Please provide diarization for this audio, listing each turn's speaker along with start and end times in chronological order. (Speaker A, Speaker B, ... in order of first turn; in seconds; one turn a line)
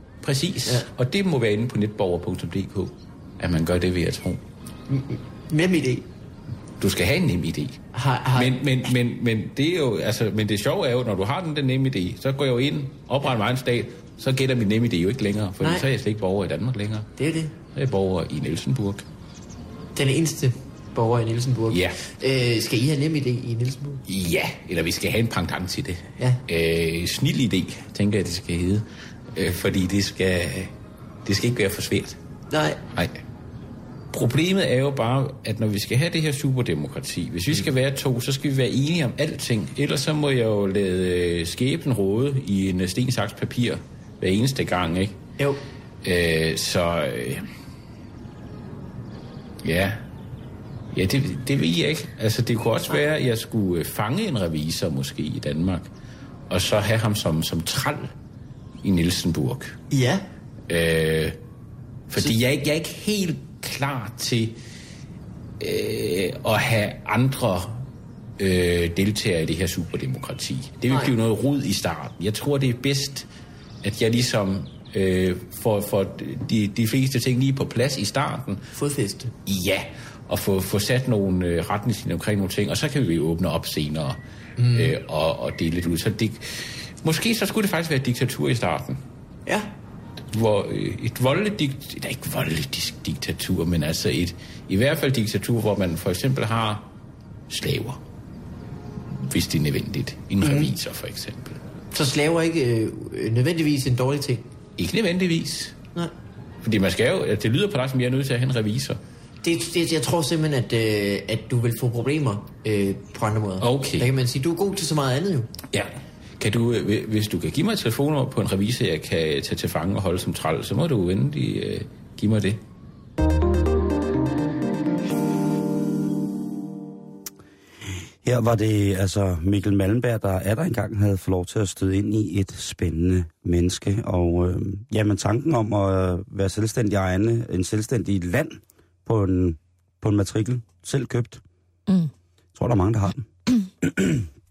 Speaker A: 0.2-4.4
Speaker B: 4.9-6.0
Speaker A: 6.8-7.8
Speaker B: 7.9-8.6
Speaker A: 8.3-17.1
Speaker B: 15.6-15.8
Speaker B: 17.1-17.6
Speaker A: 17.7-19.0
Speaker B: 19.9-24.0
Speaker A: 21.7-22.0
Speaker A: 24.1-30.7
Speaker A: 31.2-32.2
Speaker B: 32.5-32.8
Speaker A: 34.1-45.2
Speaker A: 46.0-47.4
Speaker A: 49.6-50.0
Speaker A: 50.9-55.9
Speaker A: 56.5-58.1
Speaker A: 58.8-59.8
Speaker B: 59.9-60.3
Speaker A: 60.7-61.4
Speaker A: 62.1-64.6
Speaker A: 65.6-67.8
Speaker A: 68.4-73.3
Speaker A: 73.8-78.6
Speaker B: 78.7-79.3
Speaker A: 79.5-84.2
Speaker B: 84.6-84.9
Speaker A: 84.7-89.0
Speaker A: 90.3-96.9
Speaker A: 97.5-98.0
Speaker A: 99.1-101.6
Speaker B: 100.4-100.7
Speaker B: 101.9-104.5
Speaker A: 104.8-105.8
Speaker A: 106.6-109.0
Speaker B: 109.4-115.5
Speaker A: 113.6-114.1
Speaker A: 115.7-122.6
Speaker C: 128.2-141.4
Speaker C: 142.5-143.2
Speaker C: 143.8-144.2